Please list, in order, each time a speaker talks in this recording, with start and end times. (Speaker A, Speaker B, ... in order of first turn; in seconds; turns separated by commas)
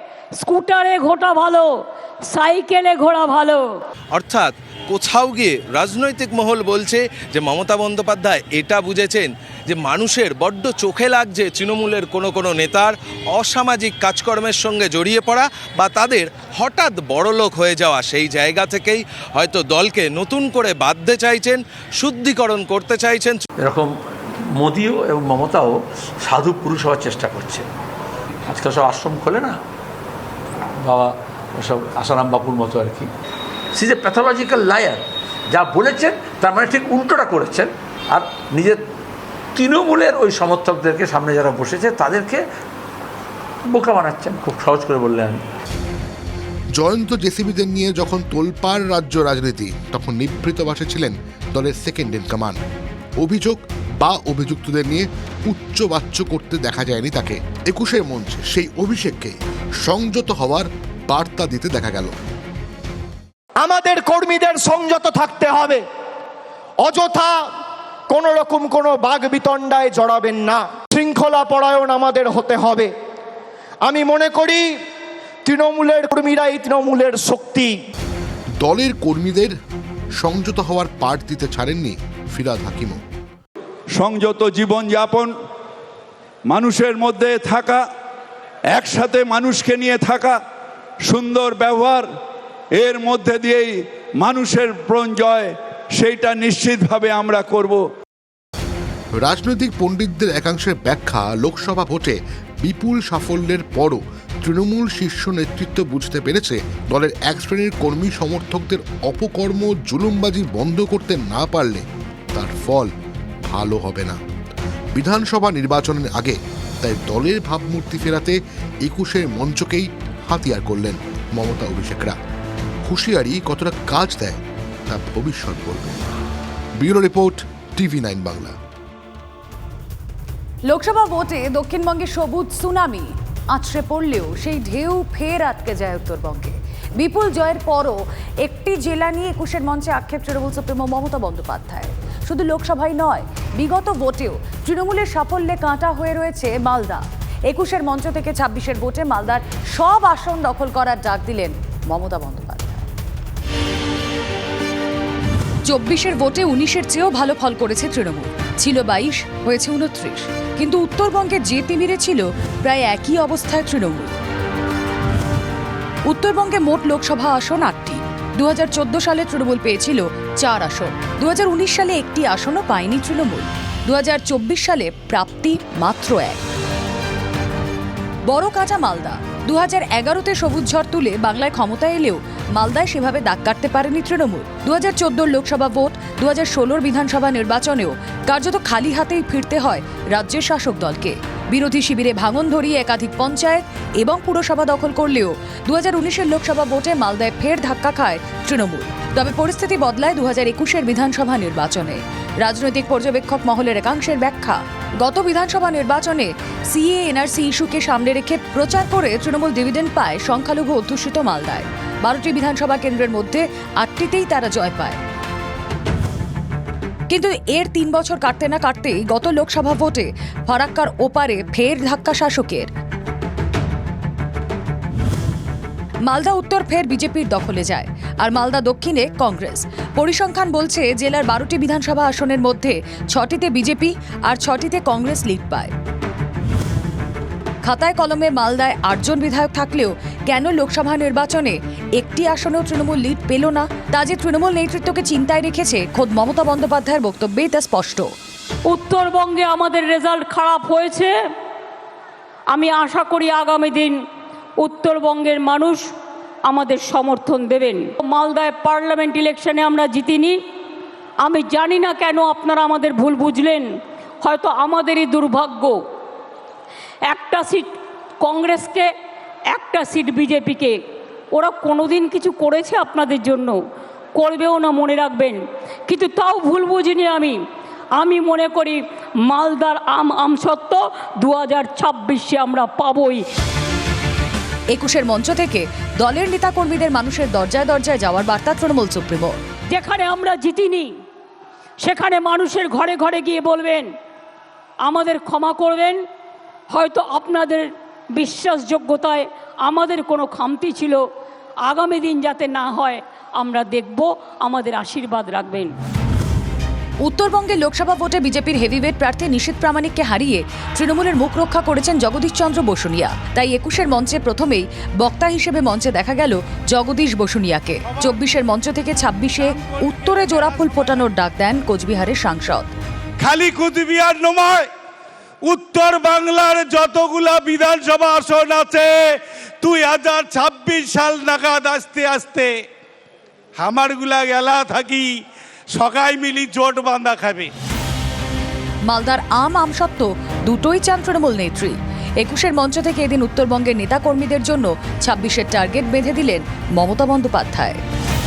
Speaker A: 0.4-1.7, Speaker A: 2.3-3.7, Speaker B: 4.1-23.4, Speaker C: 23.6-23.9, Speaker C: 24.5-27.7, Speaker C: 28.5-29.6, Speaker C: 30.8-33.1, Speaker C: 33.7-38.8, Speaker C: 39.5-42.4, Speaker C: 43.7-45.4, Speaker D: 46.7-52.6, Speaker D: 53.2-62.1, Speaker E: 63.6-65.8, Speaker E: 66.8-67.5, Speaker E: 68.1-72.9, Speaker E: 73.8-74.8, Speaker E: 75.4-77.8, Speaker D: 78.6-79.5, Speaker D: 80.2-83.0, Speaker F: 84.0-85.3, Speaker F: 86.5-87.8, Speaker F: 88.7-90.4, Speaker F: 91.0-92.1, Speaker F: 92.8-97.8, Speaker D: 99.2-112.9, Speaker D: 113.4-114.2, Speaker D: 114.9-122.2, Speaker D: 122.8-126.0, Speaker D: 126.8-128.6, Speaker G: 130.7-152.8, Speaker G: 155.7-164.1, Speaker G: 166.1-176.4, Speaker G: 178.2-215.0, Speaker G: 217.1-222.7, Speaker G: 226.0-235.7, Speaker G: 237.6-248.1, Speaker A: 248.7-251.1, Speaker A: 252.5-254.0, Speaker A: 254.6-255.8, Speaker A: 256.4-260.4, Speaker A: 261.2-263.7, Speaker A: 264.2-265.8, Speaker A: 267.1-267.7, Speaker A: 268.2-268.9, Speaker A: 269.5-270.8, Speaker A: 271.3-273.6, Speaker A: 274.1-277.4, Speaker A: 278.0-283.2, Speaker G: 284.7-289.4, Speaker A: 289.7-290.9, Speaker A: 291.8-293.9, Speaker A: 294.8-296.0, Speaker A: 296.7-301.0, Speaker A: 301.6-305.7, Speaker G: 307.0-322.7, Speaker H: 323.2-324.7, Speaker H: 325.4-332.6, Speaker H: 333.6-337.5, Speaker G: 338.9-347.8